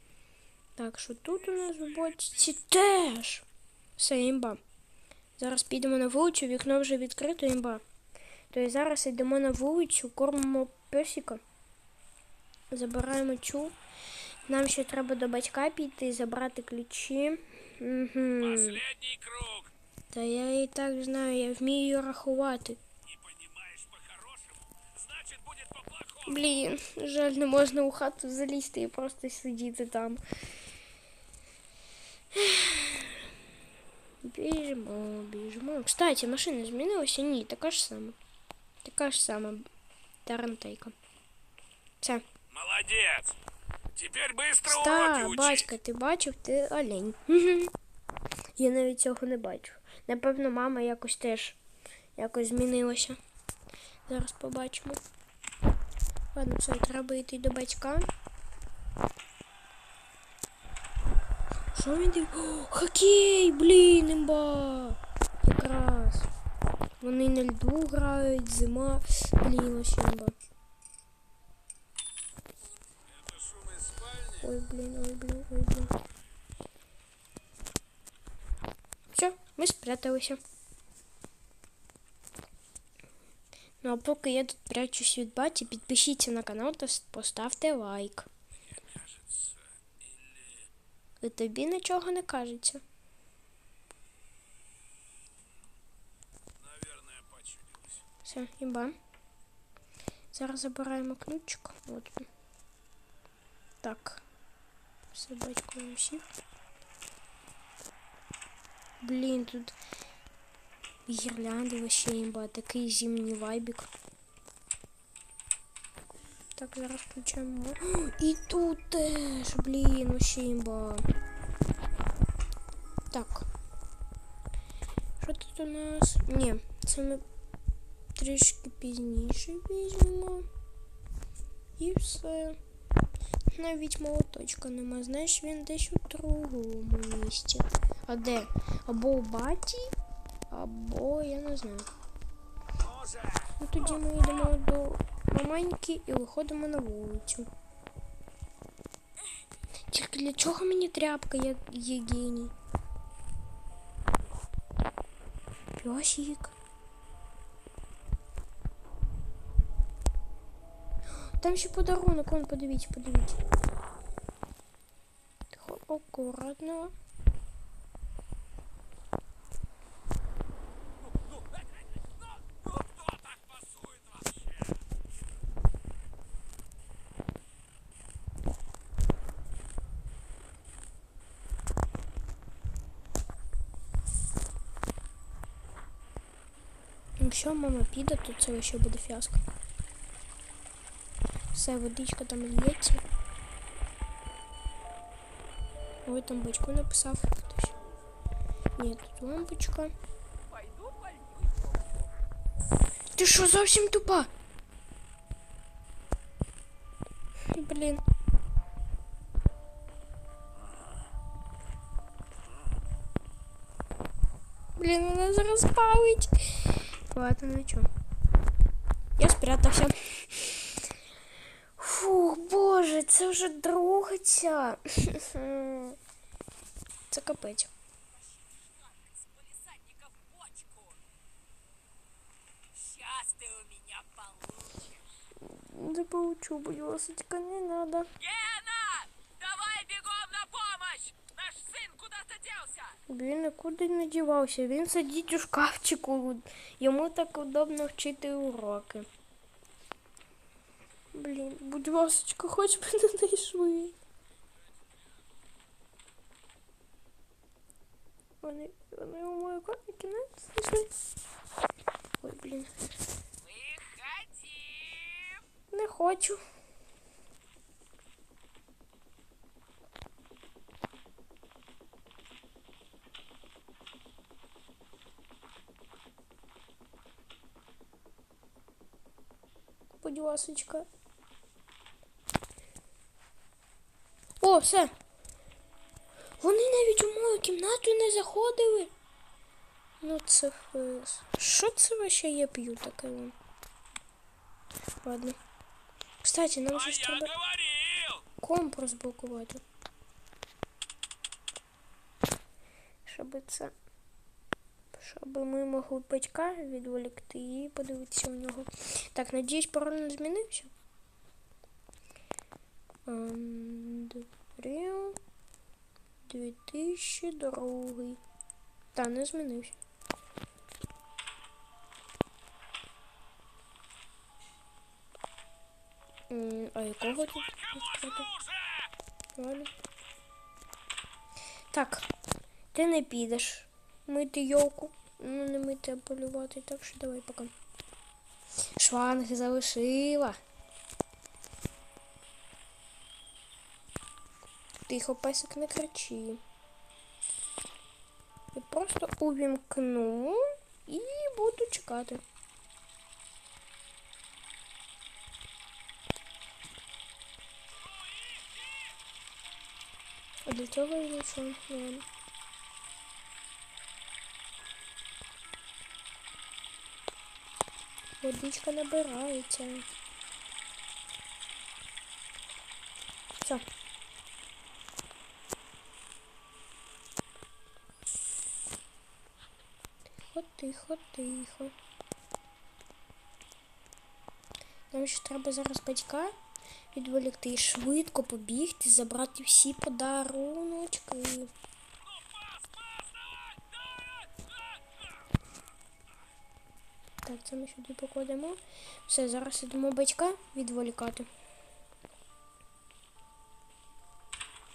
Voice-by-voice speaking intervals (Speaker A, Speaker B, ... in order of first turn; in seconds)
Speaker A: 0.8-3.5, 4.0-4.6, 5.4-7.8, 8.5-11.4, 12.7-13.7, 14.4-18.8, 20.1-22.8, 26.2-30.2, 32.3-33.3, 34.2-38.2, 38.8-39.6, 40.2-40.9, 44.6-47.7, 48.6-51.6, 52.2-53.2, 54.0-55.0, 56.3-58.1, 61.7-66.3, 67.0-70.3, 74.3-75.9, 79.1-80.4, 83.8-88.3, 91.2-92.8, 98.2-98.9, 100.3-102.3, 103.8-104.2, 105.1-106.3, 109.0-109.8, 111.1-113.9, 116.5-121.0, 123.1-123.5, 125.2-127.2, 128.1-130.5, 131.8-132.6, 133.5-139.9, 140.5-141.9, 143.6-147.5, 149.9-152.5, 155.8-156.5, 161.1-163.4, 165.5-166.9, 187.2-189.4, 191.5-193.0, 196.1-197.7, 198.8-199.9, 203.1-204.3, 207.5-208.0, 214.8-217.9, 219.2-220.9, 221.8-226.0, 227.1-227.7, 235.4-238.1, 243.1-249.1, 251.1-253.9, 258.4-260.9, 262.2-262.7, 265.7-266.4, 280.0-280.9, 284.4-284.9, 286.4-288.9, 290.0-293.3, 295.0-295.4, 296.2-297.3, 298.4-299.6, 303.0-303.7, 304.9-310.7, 313.1-315.2, 316.2-318.2, 318.9-319.8, 326.3-328.3, 329.4-329.7, 331.7-332.1, 332.7-337.5, 338.8-340.4, 344.9-346.4, 348.5-352.2, 360.5-362.0, 368.2-369.9, 380.2-381.7, 384.9-386.3, 386.9-391.5, 397.2-401.3
Speaker B: 18.4-19.7, 23.0-26.4, 42.5-43.3, 43.9-45.5, 73.0-74.4, 88.7-90.7, 96.6-98.0, 142.8-143.5, 172.5-174.7, 238.2-239.1, 239.6-240.0, 240.9-242.4, 263.4-265.4, 296.8-298.2, 327.5-328.9, 357.9-358.9, 392.1-394.6
Speaker C: 200.5-202.0, 228.7-231.0, 232.8-234.8, 238.5-238.8, 239.4-241.0, 241.7-242.9